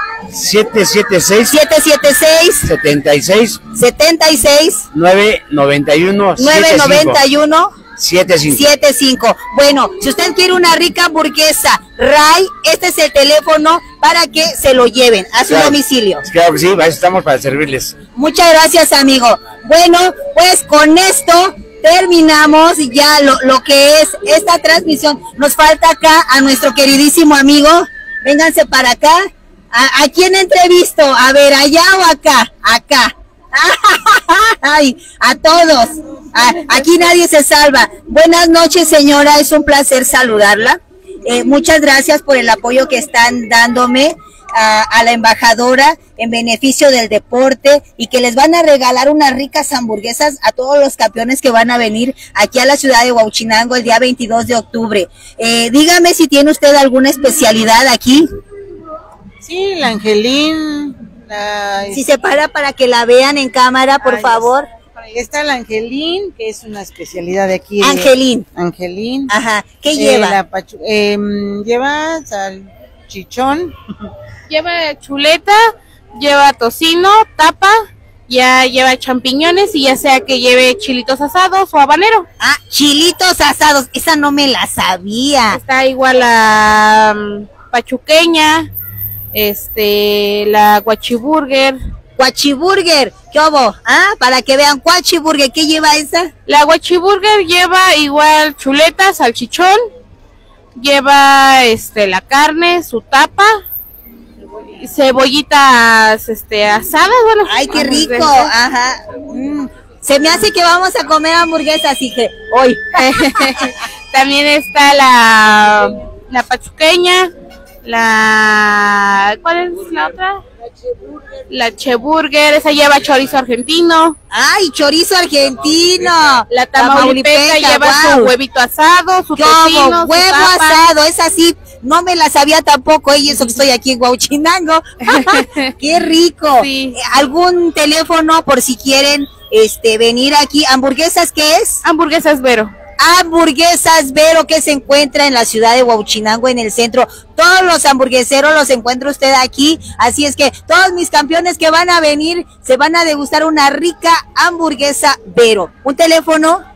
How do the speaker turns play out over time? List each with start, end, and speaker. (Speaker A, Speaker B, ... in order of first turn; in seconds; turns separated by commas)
Speaker A: 0.3-1.6, Speaker B: 1.5-2.7, Speaker A: 2.6-3.6, Speaker B: 3.7-4.9, Speaker A: 4.9-7.2, Speaker B: 6.4-7.8, Speaker A: 8.0-8.7, Speaker B: 8.5-16.2, Speaker A: 15.5-18.0, Speaker B: 18.1-58.3, Speaker C: 59.4-62.0, Speaker B: 61.9-64.7, Speaker C: 64.0-64.5, Speaker C: 65.0-69.3, Speaker B: 67.8-68.5, Speaker B: 69.3-70.4, Speaker C: 69.9-73.8, Speaker D: 74.5-82.3, Speaker B: 82.4-85.6, Speaker D: 85.5-88.7, Speaker D: 89.3-91.8, Speaker B: 92.2-96.3, Speaker D: 96.5-99.9, Speaker D: 100.8-103.6, Speaker D: 104.8-108.5, Speaker B: 107.5-113.7, Speaker D: 113.0-117.3, Speaker D: 117.8-120.4, Speaker D: 121.5-124.2, Speaker B: 124.3-128.3, Speaker D: 126.5-130.8, Speaker B: 129.3-141.8, Speaker D: 135.1-135.6, Speaker D: 136.6-137.0, Speaker D: 141.8-142.7, Speaker B: 143.0-156.6